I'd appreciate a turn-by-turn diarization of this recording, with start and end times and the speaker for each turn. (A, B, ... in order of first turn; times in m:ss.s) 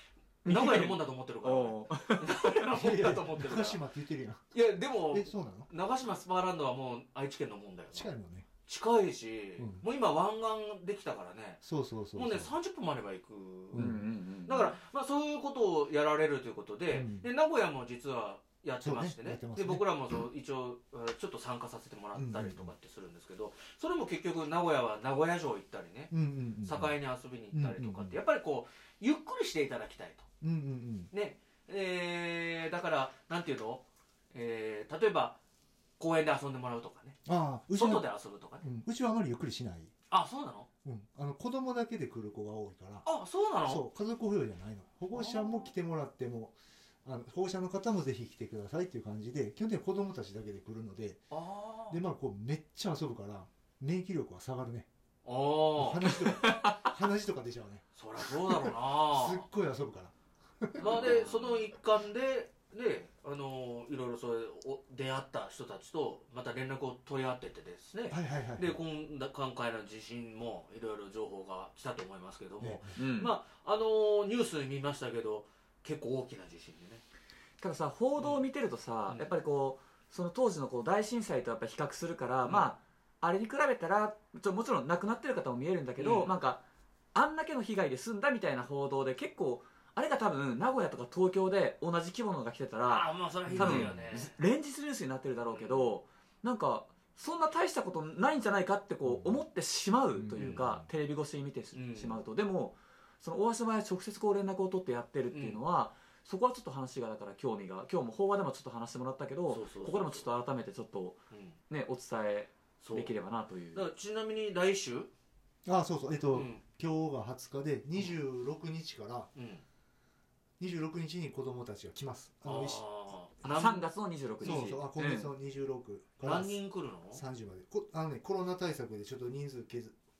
0:00.4-0:03.8 A
0:00.4-0:02.7 B
0:02.7-0:05.7 C
0:04.5-0:08.1 A
0:07.9-0:08.5 C
0:08.6-0:11.6 A
0:09.6-0:09.8 C
0:11.6-0:12.5 C
0:12.1-0:30.3 A
0:13.7-0:14.0 C
0:13.7-0:14.7 B
0:16.9-0:17.3 C
0:18.8-0:19.8 C
0:22.1-0:22.7 C
0:26.1-0:27.0 C
0:27.5-0:28.2 C
0:30.4-0:31.1 C
0:31.1-0:35.4 A
0:36.0-0:37.2 A
0:37.2-0:38.1 C
0:37.7-0:38.6 A
0:38.6-0:39.9 C
0:40.1-0:40.7 A
0:40.8-0:43.1 C
0:43.0-0:43.8 A
0:43.6-0:51.3 C
0:45.1-0:45.7 A
0:51.3-0:52.0 A
0:51.9-0:54.9 C
0:55.2-0:56.2 A
0:55.7-1:01.2 C
0:56.4-0:56.7 B
0:58.0-0:59.4 A
1:00.8-1:17.0 A
1:00.8-1:01.4 B
1:08.1-1:08.8 C
1:12.6-1:12.9 C
1:13.0-1:13.4 B
1:17.6-1:26.6 B
1:18.2-1:18.4 A
1:19.1-1:19.3 A
1:22.4-1:22.7 A
1:26.0-1:26.4 A
1:27.1-1:51.2 B
1:32.8-1:34.3 A
1:33.5-1:34.0 C
1:35.5-1:35.9 A
1:39.0-1:39.4 C
1:40.1-1:40.9 C
1:41.7-1:42.2 A
1:45.3-1:45.6 A
1:49.5-1:50.3 A
1:51.3-1:51.6 A
1:51.7-1:53.9 B
1:52.8-1:53.2 A
1:53.7-1:55.1 A
1:55.6-1:59.3 C
1:56.3-1:56.6 A
1:59.3-1:59.6 A
2:00.6-2:02.8 C
2:02.4-2:03.9 A
2:03.4-2:05.3 B
2:04.4-2:04.8 A
2:04.4-2:10.0 C
2:06.2-2:07.2 A